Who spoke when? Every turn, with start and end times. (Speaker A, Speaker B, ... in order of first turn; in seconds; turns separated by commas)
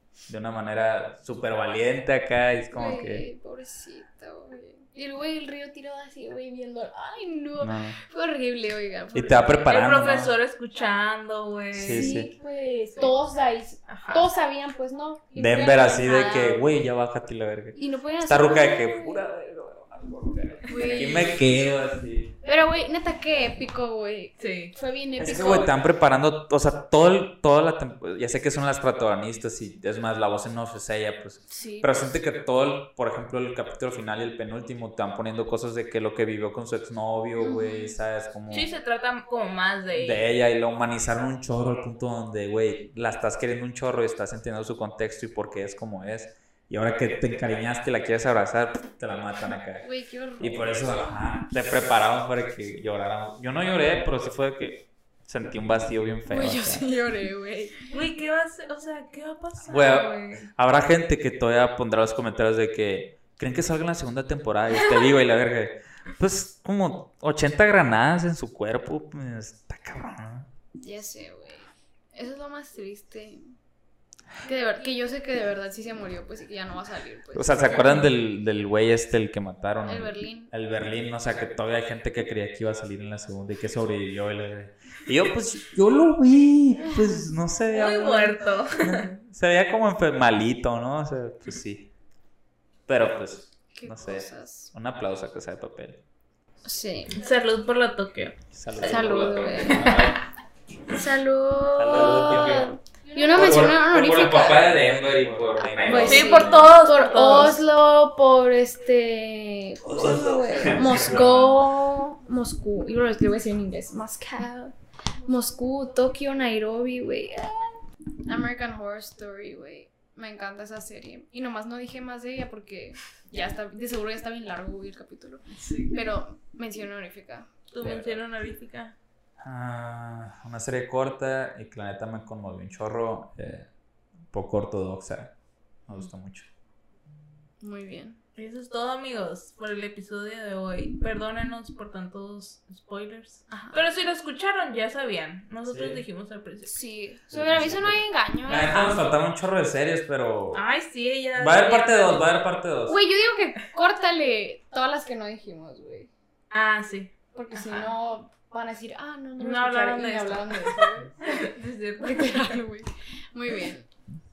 Speaker A: 0.3-3.3, Speaker B: 2.7-9.9, Speaker A: 7.6-8.0, Speaker A: 9.1-10.3, Speaker C: 9.7-12.3, Speaker A: 11.7-12.3, Speaker B: 11.9-16.7, Speaker C: 13.9-14.2, Speaker A: 15.3-22.4, Speaker B: 17.8-19.2, Speaker B: 20.7-21.4, Speaker C: 20.7-21.1, Speaker B: 22.4-25.7, Speaker C: 24.4-24.7, Speaker A: 25.2-38.7, Speaker B: 31.5-32.0, Speaker B: 37.4-38.0, Speaker C: 38.5-40.3, Speaker A: 40.0-49.8, Speaker B: 49.8-50.8, Speaker A: 50.4-56.9, Speaker B: 56.3-57.9, Speaker C: 57.9-60.5, Speaker A: 59.7-70.5, Speaker B: 70.8-73.4, Speaker B: 74.4-78.1, Speaker A: 77.3-91.9, Speaker B: 79.8-80.5, Speaker C: 87.7-89.1, Speaker A: 92.9-96.0, Speaker B: 93.7-94.7, Speaker B: 96.6-97.1, Speaker C: 97.1-100.1, Speaker A: 98.5-100.2, Speaker B: 98.8-100.0, Speaker B: 100.9-104.7, Speaker A: 101.8-102.7, Speaker C: 102.1-102.6, Speaker C: 103.2-103.5, Speaker A: 103.3-106.8, Speaker B: 105.9-114.8, Speaker C: 106.0-107.6, Speaker A: 109.9-111.6, Speaker B: 115.3-128.0, Speaker C: 125.5-126.0, Speaker C: 127.7-128.9, Speaker A: 127.8-128.2, Speaker A: 129.4-133.7, Speaker A: 134.3-135.3, Speaker A: 135.9-136.5, Speaker B: 137.6-138.2, Speaker C: 138.4-146.8, Speaker B: 143.5-143.8, Speaker A: 145.7-146.0, Speaker B: 146.7-148.9, Speaker A: 147.3-150.6, Speaker C: 150.5-152.3, Speaker A: 151.4-153.0, Speaker B: 152.9-156.1, Speaker C: 156.5-157.9, Speaker B: 157.3-161.1, Speaker C: 159.4-162.6, Speaker B: 162.0-163.9